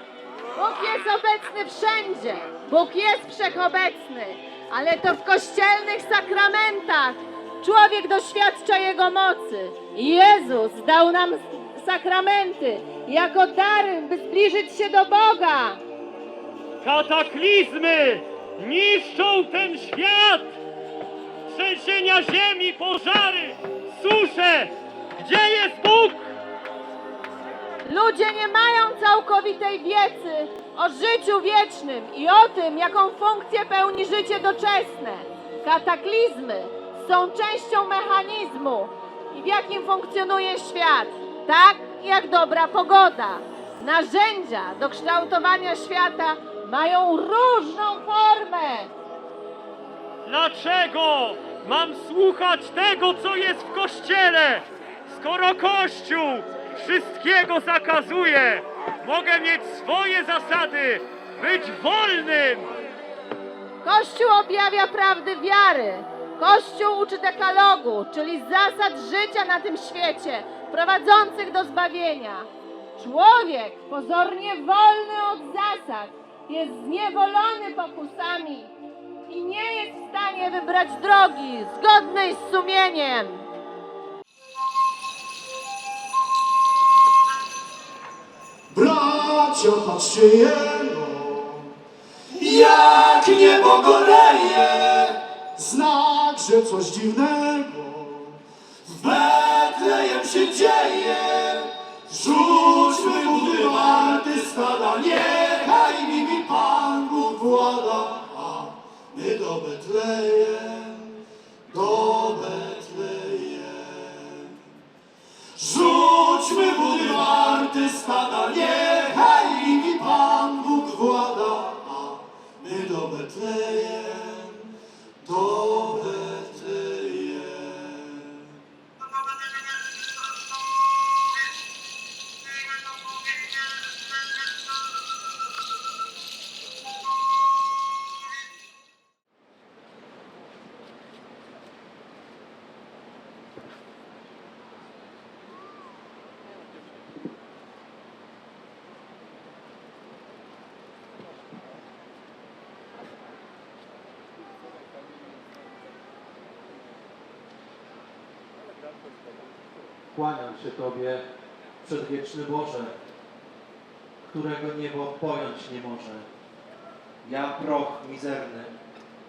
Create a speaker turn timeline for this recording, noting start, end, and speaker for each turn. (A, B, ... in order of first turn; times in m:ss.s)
0:00.6-0:15.8 A
0:16.8-0:20.6 B
0:21.5-0:26.3 B
0:27.8-0:48.9 A
0:50.2-1:02.8 B
1:03.8-1:18.7 A
1:19.3-1:23.5 A
1:28.7-1:31.8 C
1:32.3-1:54.6 C
1:55.6-2:08.6 C
2:40.1-2:41.2 D
2:41.8-2:42.9 D
2:44.2-2:46.3 D
2:47.2-2:48.7 D